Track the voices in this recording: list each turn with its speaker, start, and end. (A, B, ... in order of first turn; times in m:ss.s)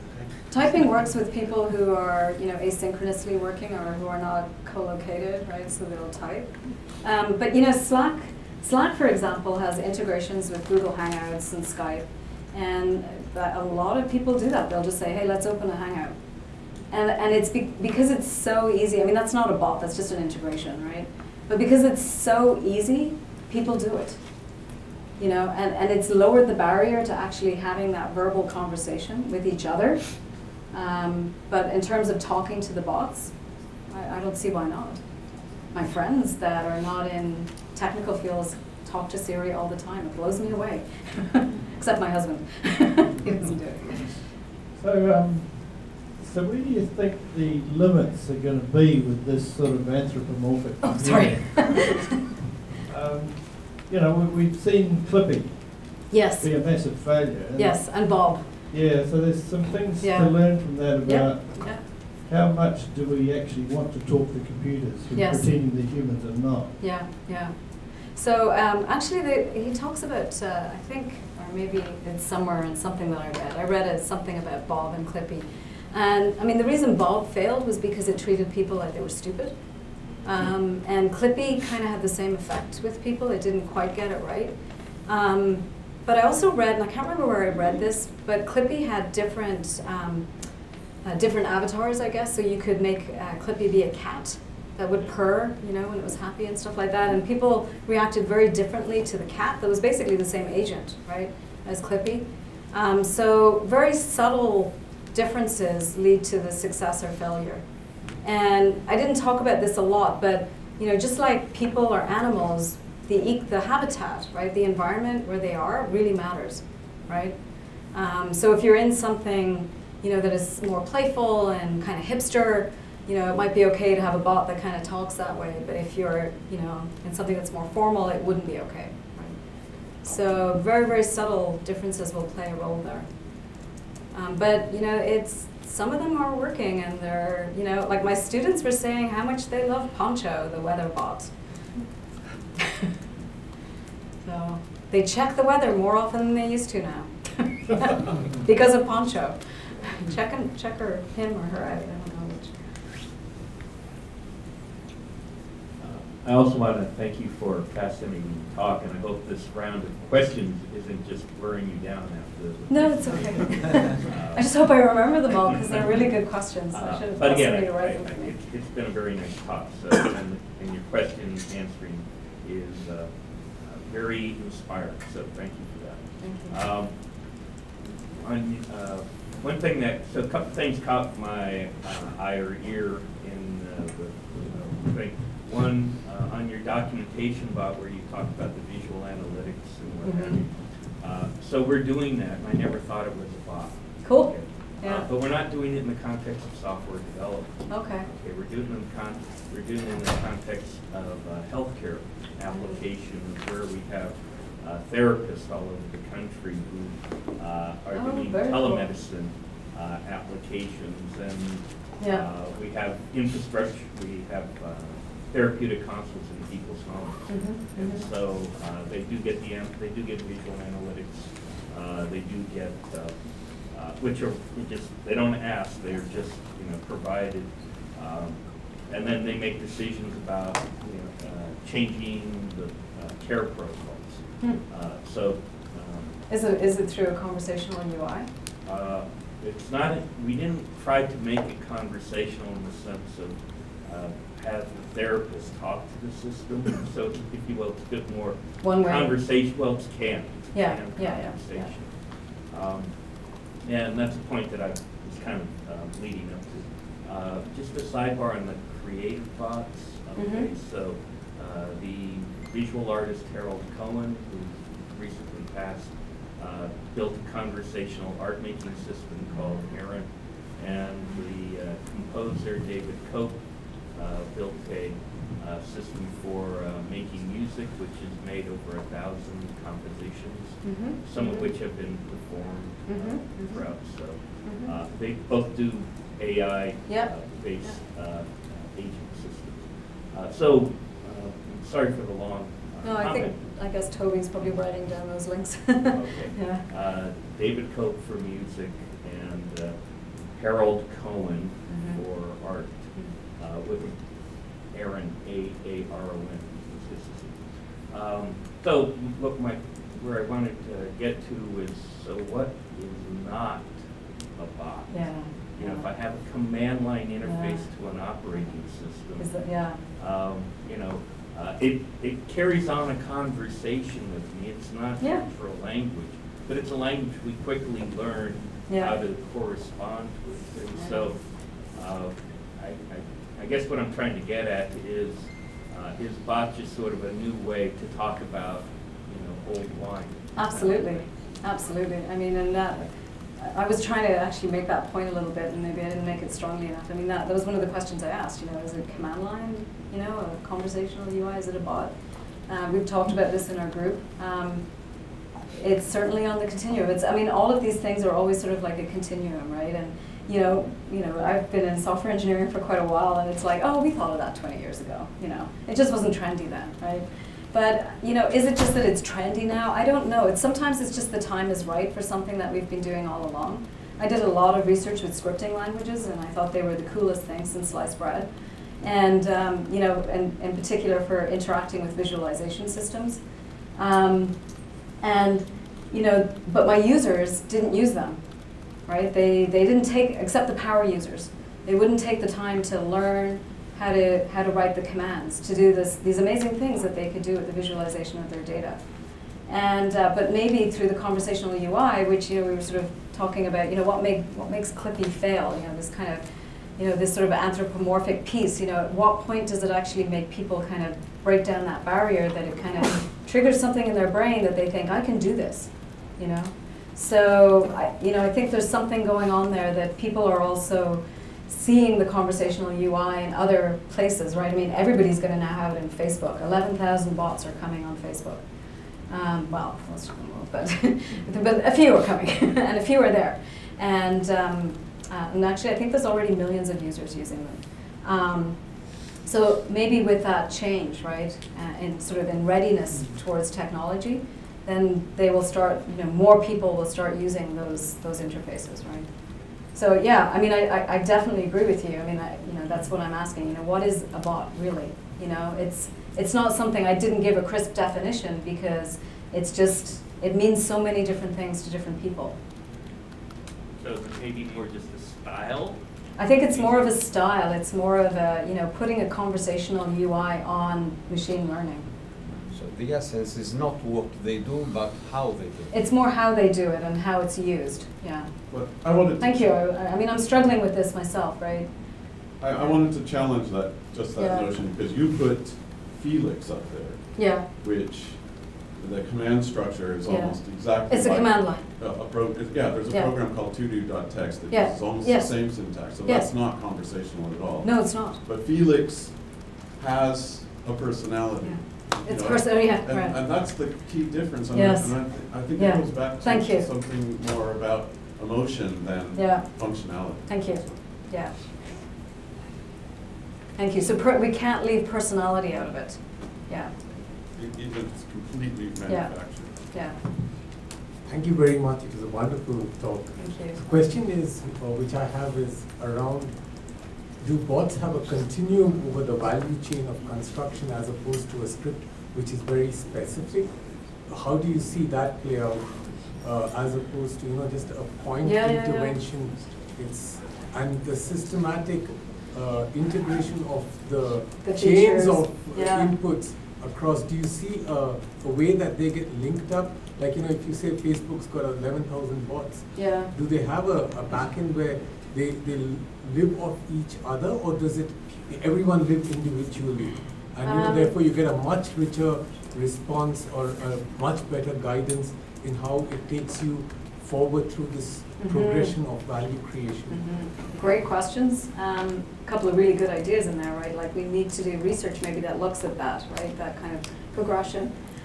0:00.5-0:16.2 A
0:16.9-0:24.4 A
0:25.2-0:33.3 A
0:33.9-0:44.1 A
0:44.7-0:52.1 B
0:50.8-0:52.0 A
0:52.8-0:58.2 B
0:56.1-0:57.0 A
0:57.5-0:58.5 A
0:58.7-1:06.8 B
1:00.0-1:01.8 A
1:05.1-1:05.5 A
1:06.8-1:24.5 A
1:25.0-1:30.3 A
1:31.0-1:47.6 A
1:48.2-2:13.1 A
2:14.1-2:21.3 A
2:24.2-2:32.5 A
2:35.8-2:57.5 C
2:42.7-2:48.3 A
2:56.2-2:56.6 A
2:58.1-3:56.2 C
3:10.0-3:10.4 A
3:14.0-3:15.1 A
3:17.7-3:18.1 A
3:22.5-3:22.8 A
3:27.9-3:28.9 A
3:32.0-3:32.2 A
3:37.3-3:38.0 A
3:56.3-3:58.3 A
3:58.6-4:53.4 C
4:08.6-4:09.2 A
4:10.5-4:11.7 A
4:20.2-4:20.5 A
4:40.6-4:41.5 A
4:42.9-4:43.6 A
4:44.4-4:44.7 A
4:46.8-4:47.8 A
4:52.8-4:56.6 A
4:55.8-5:13.8 C
5:01.7-5:02.0 A
5:14.3-5:41.1 C
5:14.9-5:15.9 A
5:17.2-5:17.6 A
5:19.2-5:19.8 A
5:25.0-5:25.2 A
5:28.7-5:29.0 A
5:30.7-5:31.1 A
5:40.3-5:51.9 A
5:52.5-5:54.6 A
5:55.5-6:18.3 A
6:18.8-6:23.2 A
6:23.8-6:24.4 A
6:25.0-6:28.2 A
6:28.8-6:38.8 A
6:39.5-6:46.2 A
6:46.8-7:08.4 A
7:09.1-7:29.1 A
7:29.6-7:42.4 A
7:43.8-7:45.8 C
7:46.2-7:51.9 A
7:46.5-7:46.8 C
7:52.4-7:55.8 D
7:55.7-8:02.8 A
7:58.5-7:59.6 E
8:02.4-8:30.8 E
8:04.1-8:04.5 A
8:07.1-8:07.4 A
8:10.1-8:11.6 A
8:14.5-8:16.3 A
8:17.6-8:18.2 A
8:21.4-8:23.2 A
8:24.5-8:26.7 A
8:29.1-8:31.7 A
8:33.6-8:36.7 A
8:37.3-8:39.7 E
8:38.9-8:40.0 A
8:41.0-9:30.3 F
8:43.2-8:43.6 A
8:58.2-8:59.0 A
9:04.4-9:05.9 A
9:12.7-9:13.1 A
9:20.4-9:20.9 A
9:28.2-9:28.7 A
9:29.9-9:37.7 A